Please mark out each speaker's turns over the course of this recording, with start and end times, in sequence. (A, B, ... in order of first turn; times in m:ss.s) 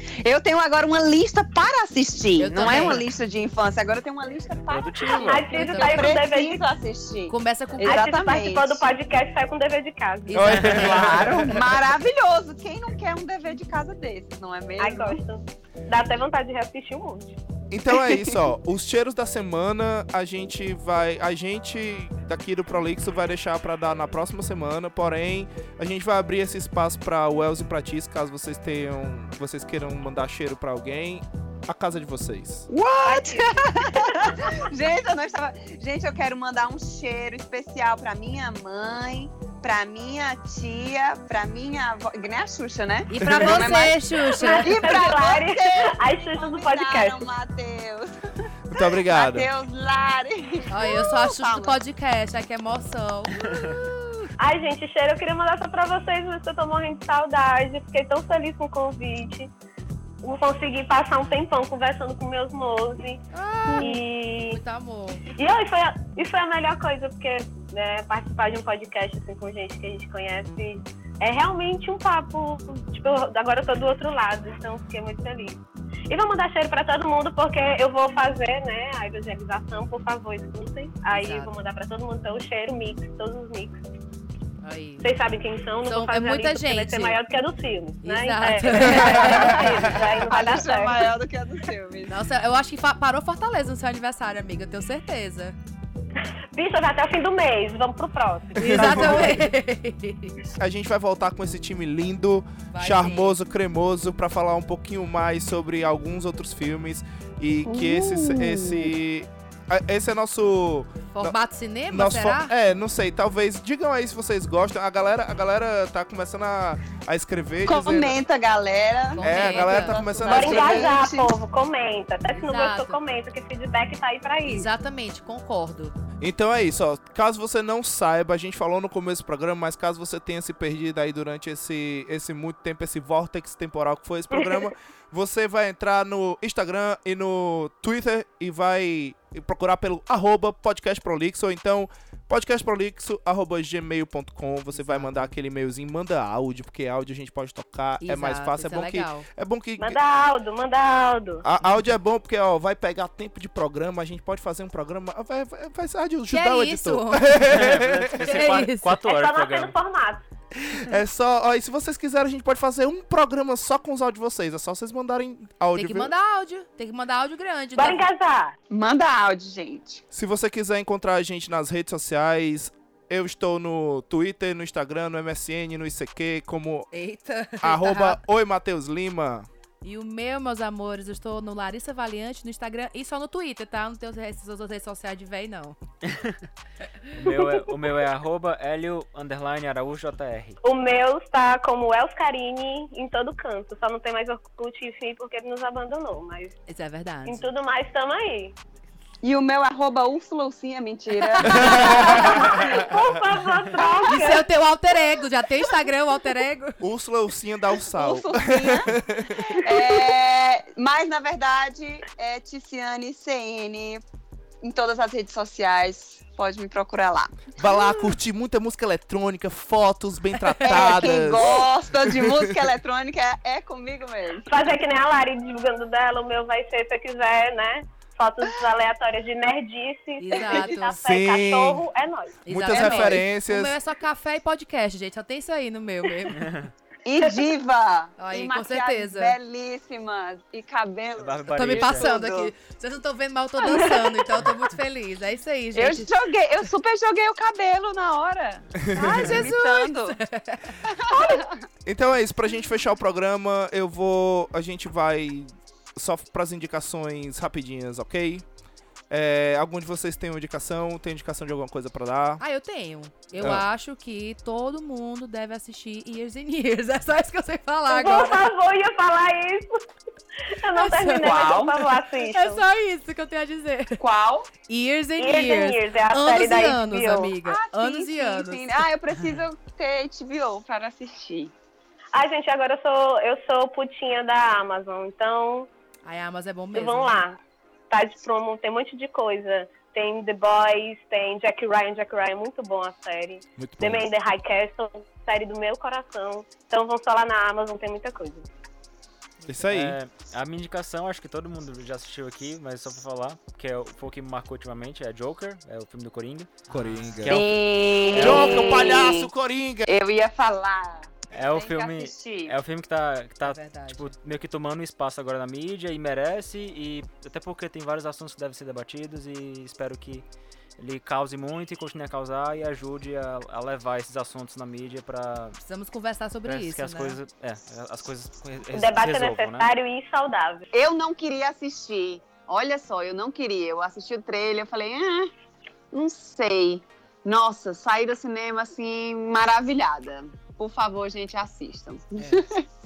0:00.2-0:08.8 A
0:02.4-0:03.1 B
0:04.7-0:05.5 C
0:05.1-0:06.6 D
0:05.4-0:06.2 B
0:07.3-0:08.0 B
0:07.8-0:10.7 D
0:10.3-0:11.4 B
0:10.3-0:11.8 E
0:10.7-0:15.2 A
0:14.8-0:17.4 D
0:17.7-0:32.7 E
0:17.9-0:18.4 A
0:32.7-0:51.8 A
0:33.0-0:34.2 D
0:43.1-0:44.8 B
0:43.2-0:43.8 E
0:44.4-0:47.3 D
0:48.7-0:49.5 E
0:50.7-0:53.9 B
0:54.4-0:59.5 D
1:00.2-1:04.6 D
1:03.3-1:05.2 B
1:05.3-1:23.8 D
1:21.1-1:21.5 B
1:24.6-1:25.1 B
1:25.0-1:31.1 D
1:25.8-1:27.2 B
1:28.0-1:30.2 B
1:29.0-1:29.9 E
1:30.2-1:32.2 A
1:32.1-1:35.6 B
1:36.5-1:39.4 D
1:38.6-1:39.4 E
1:38.6-1:40.3 B
1:40.5-1:51.4 E
1:42.7-1:43.4 B
1:47.7-1:48.9 A
1:51.1-1:52.5 B
1:51.9-1:58.2 E
1:57.6-2:01.3 A
1:59.1-2:00.9 B
1:59.2-2:00.9 E
2:00.3-2:04.7 D
2:02.3-2:03.0 B
2:04.4-2:05.9 B
2:06.2-2:30.0 E
2:24.7-2:25.3 B
2:28.0-2:29.3 B
2:29.8-2:31.4 D
2:31.4-2:38.4 E
2:36.3-2:39.0 B
2:37.5-2:39.7 C
2:39.0-2:40.2 D
2:40.5-2:46.1 E
2:45.7-2:48.0 B
2:47.8-2:48.6 D
2:48.7-2:50.0 A
2:50.1-2:56.9 E
2:56.9-2:58.2 B
2:57.6-2:59.5 E
2:59.8-3:05.8 B
3:06.0-3:06.4 C
3:07.2-3:10.6 C
3:10.6-3:16.6 D
3:16.7-3:17.4 B
3:17.2-3:18.6 D
3:19.2-3:22.9 A
3:21.2-3:22.5 B
3:21.4-3:23.1 E
3:21.7-3:24.4 D
3:23.8-3:24.3 A
3:24.0-3:26.8 B
3:26.8-3:30.0 E
3:27.9-3:28.9 A
3:29.4-3:34.0 A
3:34.6-3:37.5 A
3:37.6-3:42.7 E
3:40.4-3:41.2 B
3:40.6-3:44.5 A
3:44.5-3:53.2 D
3:50.2-3:51.0 B
3:50.4-3:50.7 A
3:51.0-3:51.8 E
3:52.5-3:53.8 E
3:52.5-3:56.5 B
3:56.3-3:56.7 C
3:57.0-4:02.5 A
3:57.2-3:57.5 D
3:58.2-3:59.4 B
4:01.2-4:02.1 C
4:01.5-4:06.1 B
4:03.7-4:04.4 A
4:05.7-4:10.2 A
4:08.8-4:09.5 E
4:08.9-4:10.8 B
4:10.8-4:11.6 A
4:11.1-4:11.5 D
4:11.8-4:18.4 E
4:19.1-4:22.4 E
4:22.4-4:28.5 B
4:23.4-4:23.6 E
4:27.9-4:29.7 D
4:30.5-4:32.6 D
4:30.7-4:34.0 B
4:31.2-4:31.8 A
4:34.0-4:34.5 A
4:34.7-4:38.8 B
4:35.2-4:37.4 D
4:37.4-4:41.5 A
4:42.1-4:45.7 D
4:46.0-4:47.2 B
4:46.7-4:47.4 D
4:47.9-4:58.5 D
4:53.6-4:54.1 E
4:59.4-5:00.0 E
4:59.7-5:08.7 C
5:06.7-5:07.5 E
5:07.2-5:09.3 A
5:08.1-5:09.9 E
5:09.9-5:12.6 A
5:11.3-5:20.2 C
5:13.4-5:14.1 B
5:20.8-5:25.6 C
5:25.6-5:27.2 B
5:26.4-5:29.7 C
5:28.7-5:30.7 D
5:30.7-5:35.3 A
5:35.9-5:42.7 A